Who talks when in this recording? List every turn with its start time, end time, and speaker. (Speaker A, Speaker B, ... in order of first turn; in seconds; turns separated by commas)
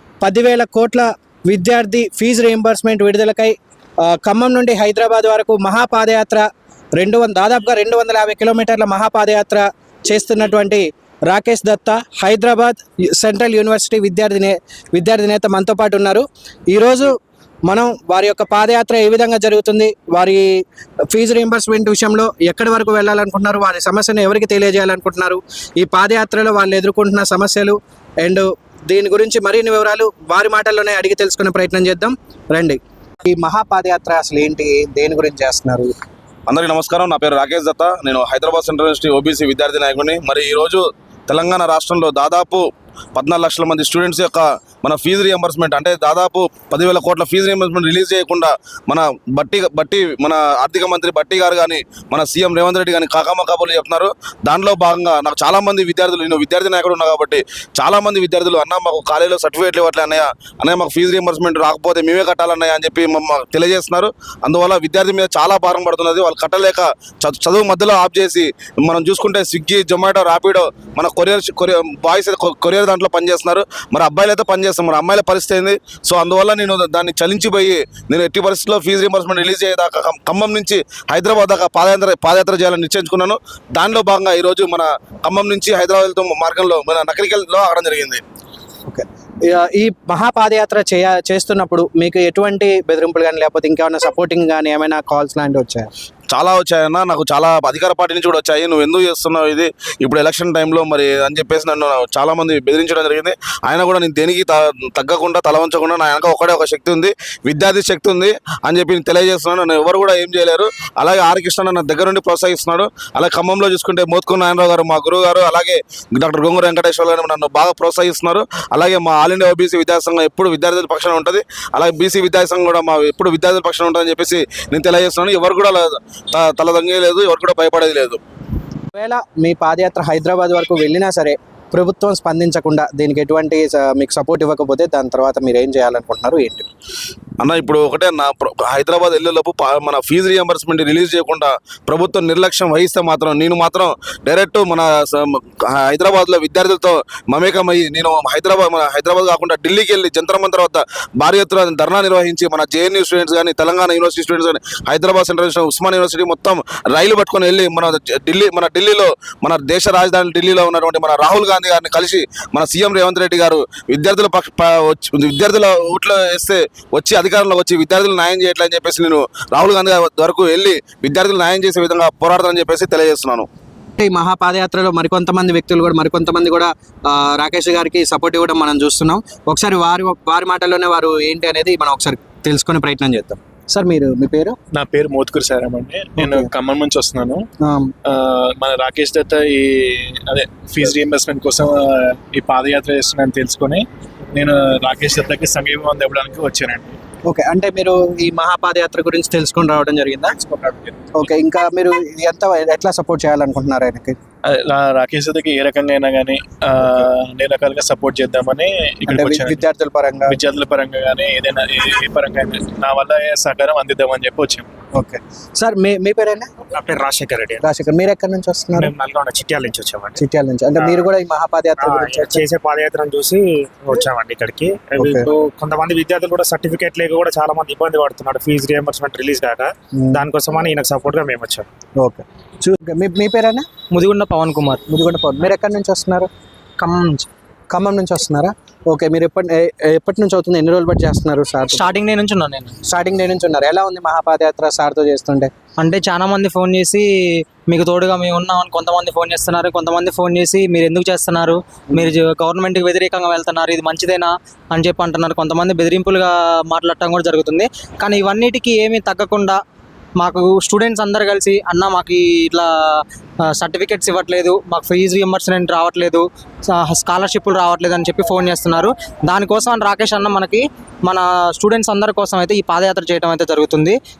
Speaker A: 0.2-17.1, Speaker A: 17.7-20.5, Speaker A: 21.1-35.9, Speaker B: 36.5-88.2, Speaker A: 88.8-95.9, Speaker B: 96.3-128.2, Speaker A: 128.9-136.7, Speaker B: 137.4-173.4, Speaker A: 174.0-184.6, Speaker C: 184.7-187.4, Speaker A: 186.2-186.5, Speaker A: 187.6-187.9, Speaker C: 188.1-197.0, Speaker A: 197.2-200.3, Speaker C: 200.4-200.9, Speaker A: 201.1-204.1, Speaker C: 204.4-209.6, Speaker A: 209.1-210.4, Speaker C: 210.3-214.7, Speaker A: 214.9-216.5, Speaker D: 216.7-217.6, Speaker A: 217.6-218.9, Speaker D: 218.7-220.2, Speaker A: 220.2-222.4, Speaker D: 220.8-221.1, Speaker D: 221.8-231.7, Speaker A: 225.0-225.2, Speaker A: 232.0-233.7, Speaker E: 233.9-234.8, Speaker A: 234.9-236.3, Speaker E: 236.8-237.3, Speaker A: 237.7-241.9, Speaker E: 241.7-242.8, Speaker A: 242.9-245.5, Speaker E: 245.8-247.1, Speaker E: 247.7-259.6, Speaker E: 260.2-273.9